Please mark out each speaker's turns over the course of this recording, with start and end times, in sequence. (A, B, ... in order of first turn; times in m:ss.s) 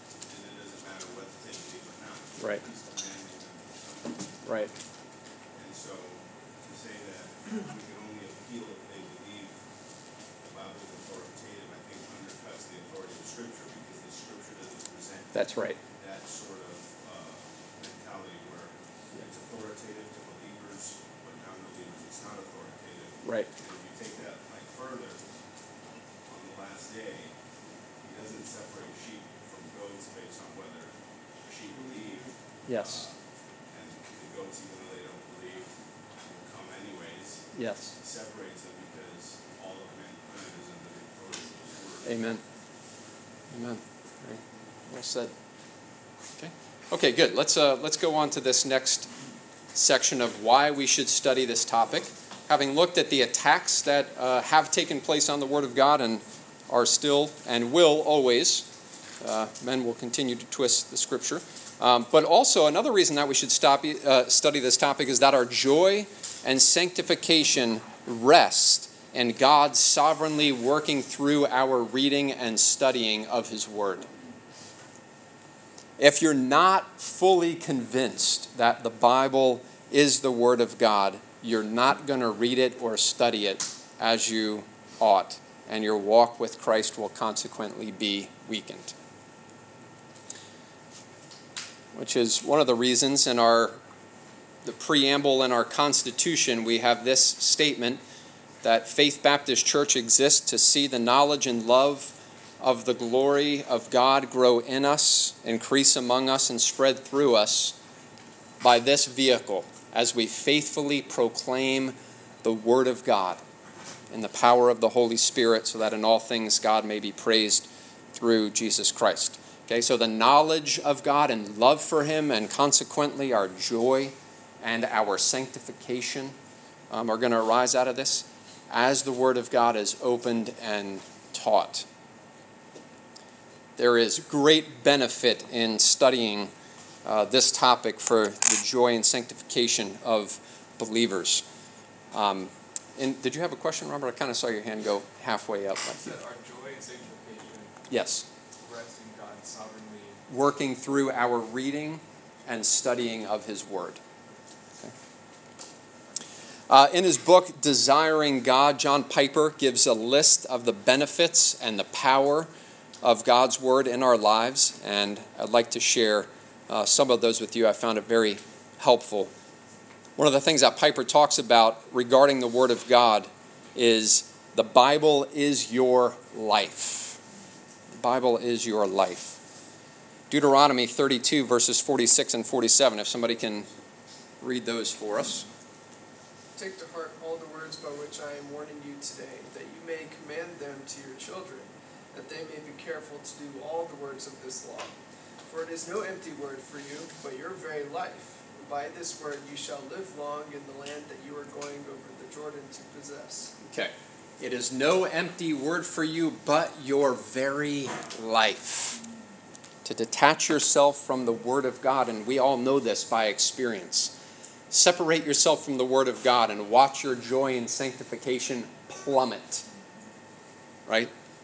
0:00.2-0:04.6 A
0:02.4-0:02.6 B
0:04.4-0:04.7 B
0:05.5-0:09.6 A
0:10.4-0:25.2 A
0:15.3-0:15.8 B
0:23.2-0:23.5 B
0:26.3-0:27.3 A
0:28.0-0:30.9 A
0:31.4-0:33.2 A
0:32.7-0:33.1 B
0:33.7-0:42.2 A
0:37.5-0:37.9 B
0:42.0-0:42.4 B
0:43.5-0:45.3 B
0:46.4-0:49.1 B
0:49.7-0:58.7 B
0:59.2-1:14.1 B
1:16.0-1:28.9 B
1:31.9-1:33.8 B
1:34.6-1:38.0 B
1:38.6-1:47.8 B
1:48.6-1:53.4 B
1:54.1-2:06.3 B
2:06.9-2:11.8 B
2:13.8-2:16.5 B
2:17.0-2:21.4 B
2:22.1-2:26.2 B
2:26.0-2:27.7 C
2:27.9-2:28.2 B
2:28.6-2:30.1 C
2:30.3-2:34.0 B
2:36.7-2:42.5 B
2:43.0-2:49.3 B
2:50.2-2:57.2 B
2:58.0-2:59.4 B
3:00.3-3:03.7 B
3:04.4-3:05.4 B
3:06.6-3:14.9 D
3:15.4-3:23.5 D
3:23.6-3:29.0 B
3:29.8-3:34.1 B
3:34.7-3:39.6 B